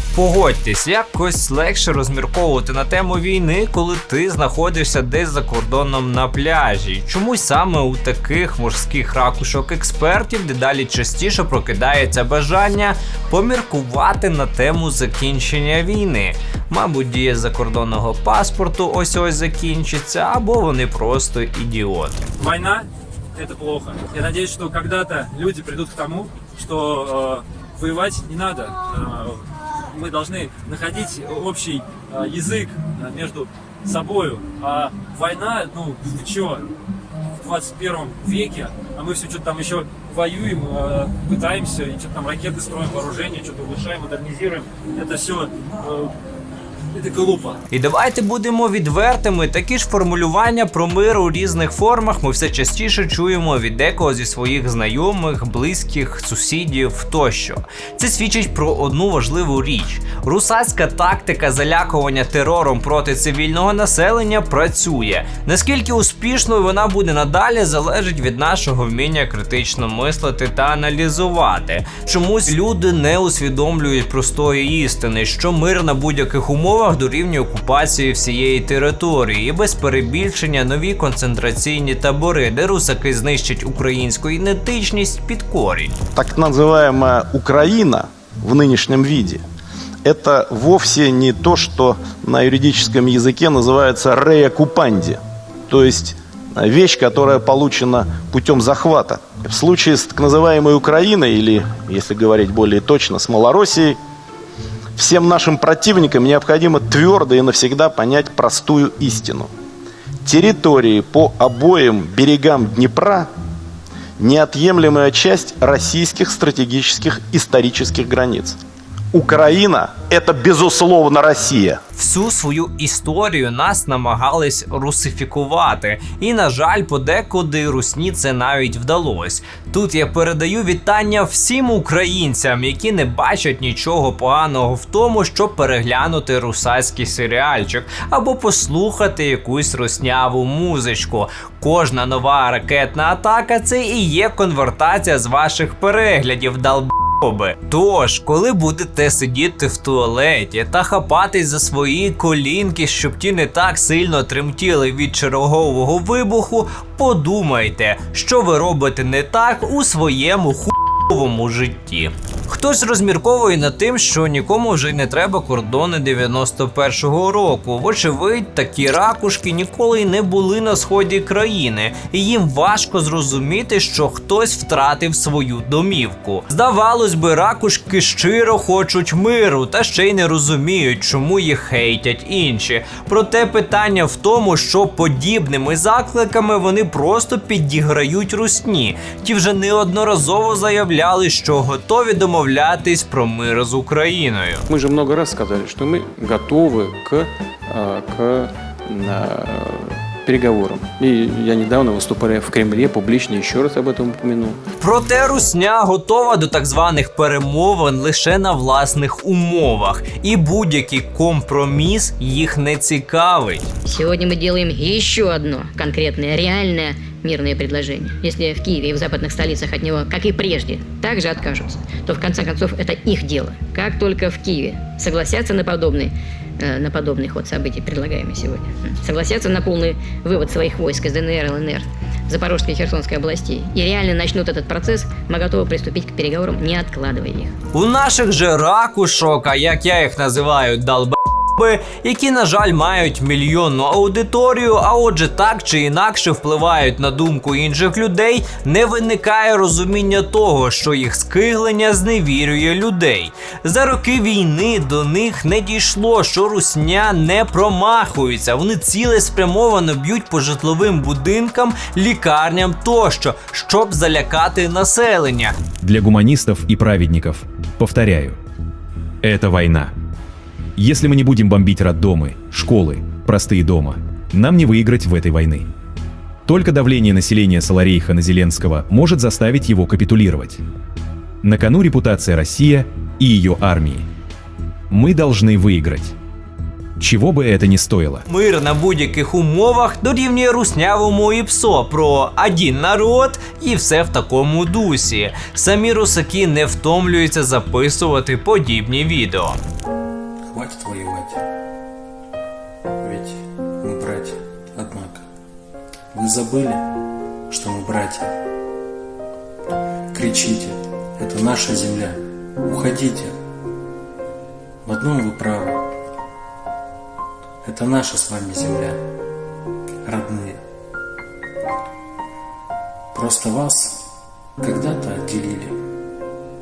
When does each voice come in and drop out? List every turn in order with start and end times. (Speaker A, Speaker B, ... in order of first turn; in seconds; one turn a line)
Speaker A: 0.1-22.2
Speaker B: 22.4-22.8
Speaker B: 23.4-29.4
Speaker B: 29.9-36.6
Speaker B: 37.4-46.1
Speaker B: 46.9-47.6
Speaker A: 47.7-86.0
Speaker C: 86.2-89.4
Speaker C: 90.0-104.0
Speaker C: 105.0-109.5
Speaker C: 110.2-113.3
Speaker C: 114.2-118.6
Speaker C: 119.1-121.8
Speaker A: 122.0-194.6
Speaker D: 194.7-204.6
Speaker A: 204.8-213.7
Speaker E: 213.8-237.5
Speaker A: 237.7-265.6
Speaker F: 265.8-268.4
Speaker F: 269.2-269.9
Speaker F: 270.8-275.6
Speaker F: 276.5-280.6
Speaker F: 281.4-284.1
Speaker F: 284.9-286.1
Speaker F: 287.0-288.2
Speaker A: 288.3-299.6
Speaker G: 300.5-301.4
Speaker G: 303.0-305.3
Speaker G: 306.1-306.9
Speaker G: 307.5-308.4
Speaker G: 310.1-313.4
Speaker G: 314.8-315.9
Speaker G: 317.6-319.0
Speaker G: 320.0-320.6
Speaker G: 323.1-324.1
Speaker G: 324.6-325.8